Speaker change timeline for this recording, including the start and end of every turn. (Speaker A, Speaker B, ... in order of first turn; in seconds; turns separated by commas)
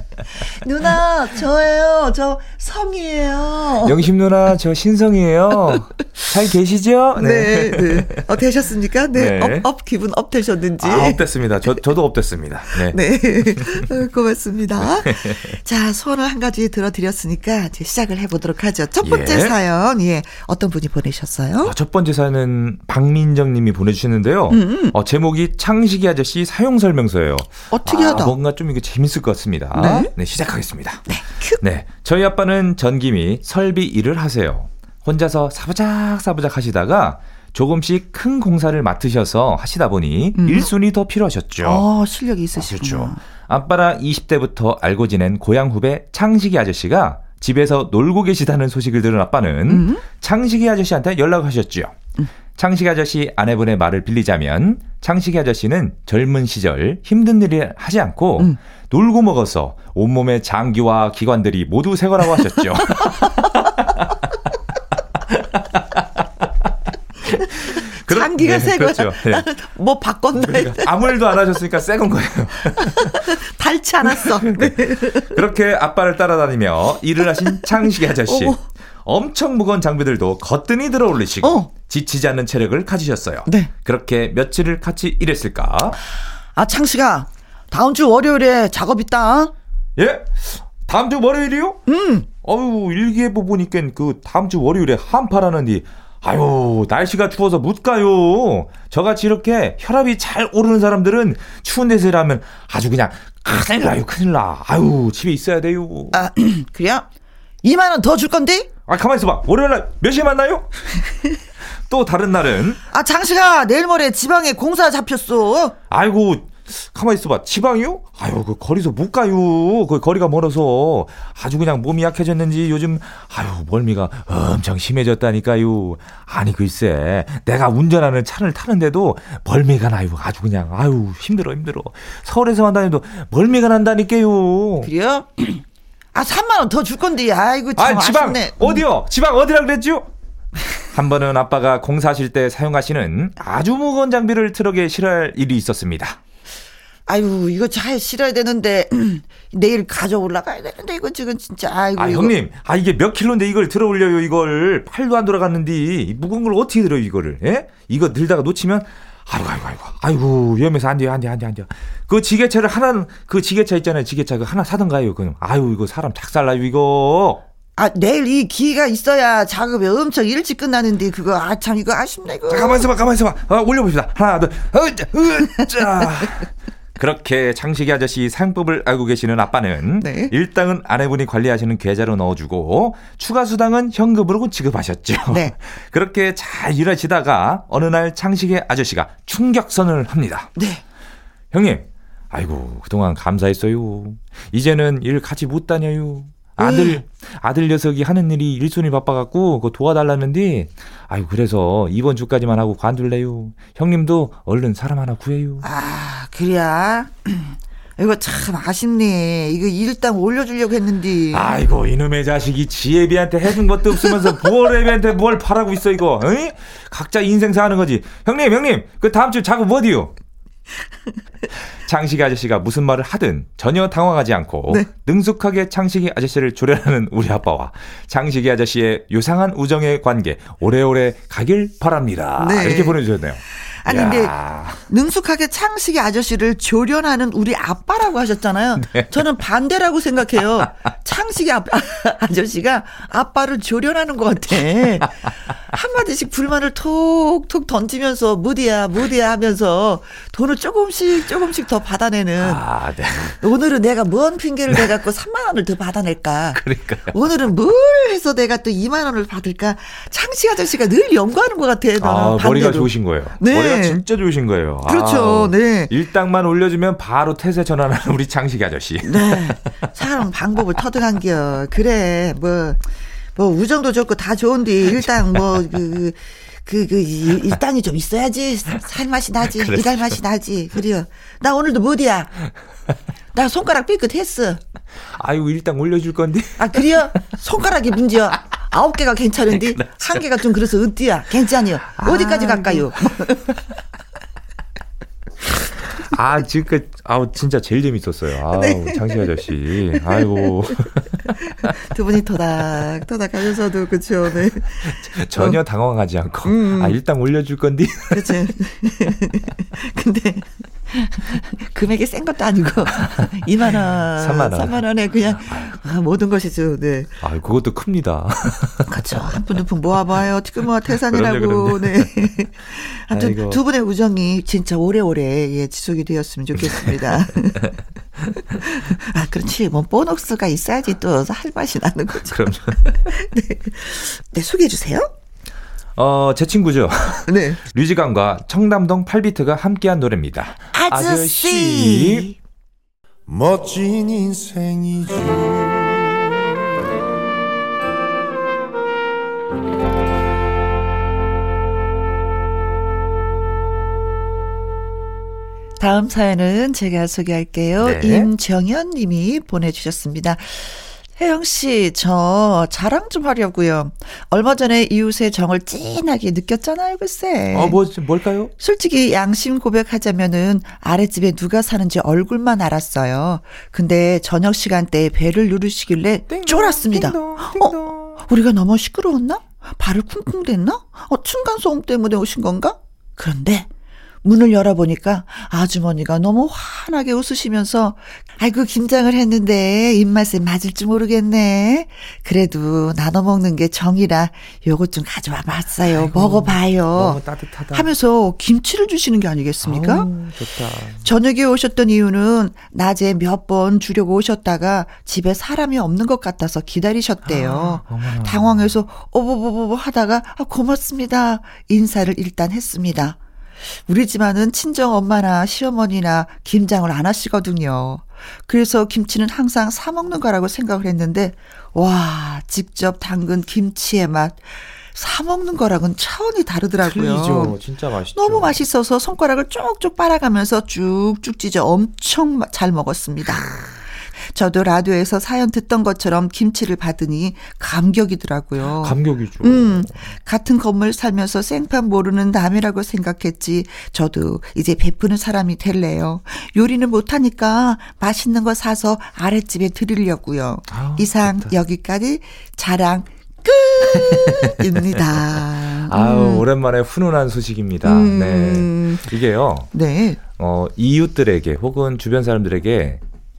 Speaker A: 0.4-3.9, Speaker B: 3.8-8.3, Speaker A: 7.2-11.2, Speaker B: 9.1-9.7, Speaker B: 10.8-13.8, Speaker A: 12.9-21.7, Speaker B: 14.8-15.6, Speaker B: 19.0-19.6, Speaker B: 21.6-41.8, Speaker A: 24.5-24.9, Speaker A: 27.7-28.3, Speaker A: 29.8-30.1, Speaker A: 31.1-31.6, Speaker A: 40.4-40.7, Speaker A: 41.6-43.2, Speaker B: 42.6-52.0, Speaker A: 49.7-50.0, Speaker B: 52.6-64.1, Speaker B: 65.3-66.1, Speaker B: 67.2-69.5, Speaker A: 67.4-71.2, Speaker B: 70.3-73.4, Speaker A: 72.7-75.4, Speaker B: 74.0-86.0, Speaker A: 77.2-78.6, Speaker A: 81.4-81.7, Speaker A: 83.5-83.7, Speaker A: 86.6-89.5, Speaker B: 90.0-91.8, Speaker A: 91.9-92.3, Speaker B: 92.4-106.2, Speaker A: 106.1-107.1, Speaker A: 107.6-108.7, Speaker B: 108.9-110.7, Speaker B: 111.9-112.8, Speaker A: 112.9-115.8, Speaker B: 115.9-134.9, Speaker A: 134.8-138.8, Speaker B: 137.8-140.1, Speaker B: 140.9-146.2, Speaker A: 147.1-152.3, Speaker B: 151.9-167.4, Speaker A: 167.8-172.9, Speaker B: 172.5-190.5, Speaker A: 180.0-180.3, Speaker A: 185.2-185.5, Speaker A: 190.6-190.8, Speaker B: 191.5-205.6, Speaker A: 196.6-197.0, Speaker A: 205.6-211.5, Speaker B: 211.3-220.1, Speaker B: 221.8-234.8, Speaker A: 232.4-233.0, Speaker A: 233.6-252.6, Speaker B: 238.8-239.1, Speaker B: 252.4-253.4, Speaker A: 253.4-264.0, Speaker B: 256.5-257.2, Speaker B: 262.0-269.5, Speaker A: 264.9-265.9, Speaker A: 269.0-272.8, Speaker A: 273.4-282.4, Speaker B: 279.5-280.2, Speaker A: 283.3-284.6, Speaker B: 285.0-287.0, Speaker A: 286.6-293.5, Speaker B: 289.9-290.2, Speaker B: 292.0-292.9, Speaker B: 295.9-301.7, Speaker A: 298.5-299.4, Speaker A: 299.9-300.5, Speaker A: 301.4-305.6, Speaker B: 304.8-308.5, Speaker A: 306.4-307.0, Speaker A: 308.1-317.1, Speaker B: 313.6-315.7, Speaker B: 317.2-319.2, Speaker A: 318.9-327.7, Speaker B: 320.9-322.2, Speaker B: 323.1-323.6, Speaker A: 328.5-335.1, Speaker B: 332.3-333.1, Speaker B: 336.0-342.3, Speaker A: 337.3-337.6, Speaker A: 340.7-342.4, Speaker C: 343.3-346.4, Speaker A: 355.8-367.8, Speaker B: 357.8-358.3, Speaker B: 367.5-368.5, Speaker A: 368.6-383.7, Speaker B: 376.3-378.2, Speaker A: 384.2-400.1, Speaker B: 395.9-397.9, Speaker B: 399.6-401.1, Speaker A: 401.0-427.6, Speaker B: 407.2-408.8, Speaker B: 426.8-428.6, Speaker A: 428.1-456.5, Speaker B: 438.6-440.0, Speaker B: 450.7-451.5, Speaker B: 453.9-455.2, Speaker B: 455.9-459.7, Speaker A: 457.9-459.1, Speaker A: 459.7-460.2, Speaker B: 460.3-463.0